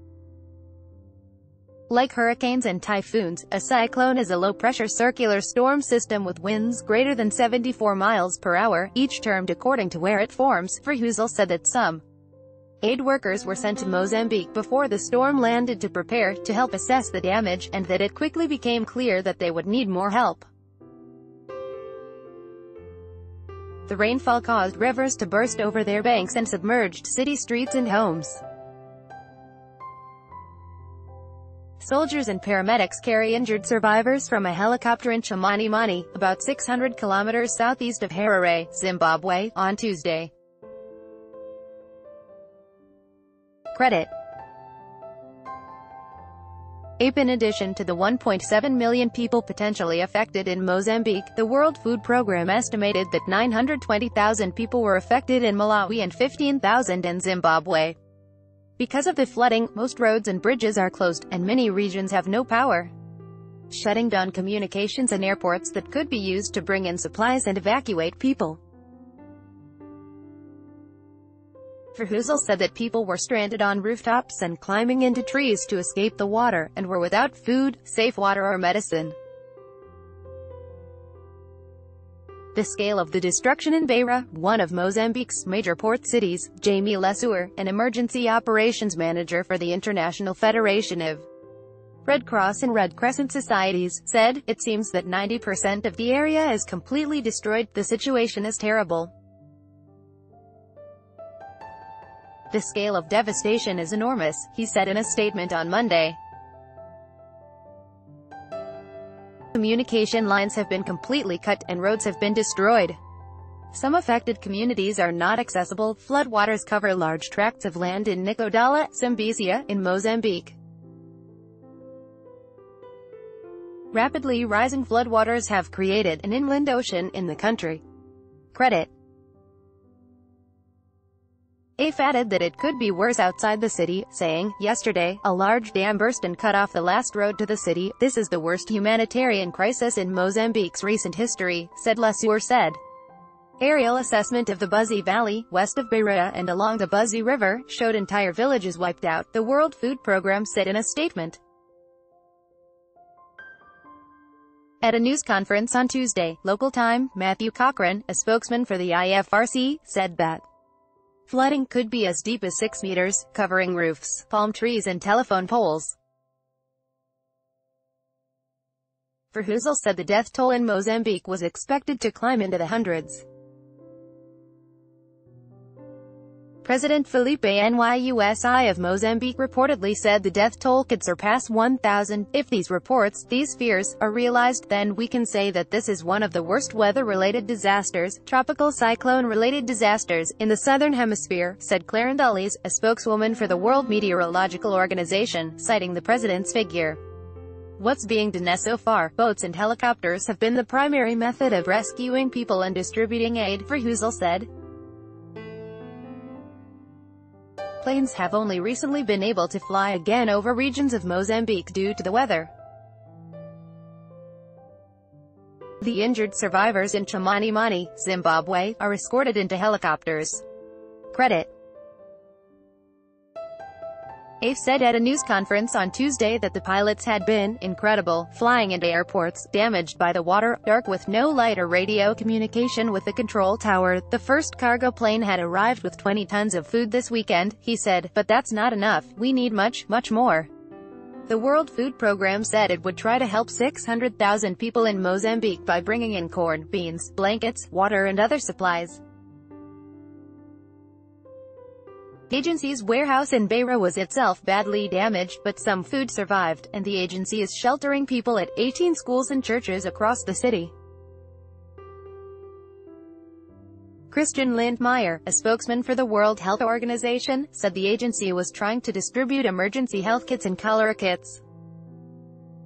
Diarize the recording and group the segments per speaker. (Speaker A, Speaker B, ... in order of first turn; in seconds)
Speaker A: 1.9-12.0, 12.8-20.5, 23.9-28.4, 31.8-40.3, 43.7-44.1, 47.0-58.0, 58.8-62.9, 63.7-68.6, 72.0-79.2, 82.5-91.3, 92.0-99.1, 102.5-106.2, 109.5-113.0, 113.7-120.6, 123.9-127.8, 128.5-128.9, 131.8-142.8, 143.6-151.4, 154.8-160.4, 161.3-166.0, 169.3-173.2, 176.6-197.0, 197.8-204.5, 207.8-212.5, 215.8-220.4, 221.1-221.5, 224.4-240.5, 241.3-249.0, 252.3-260.7, 264.1-271.4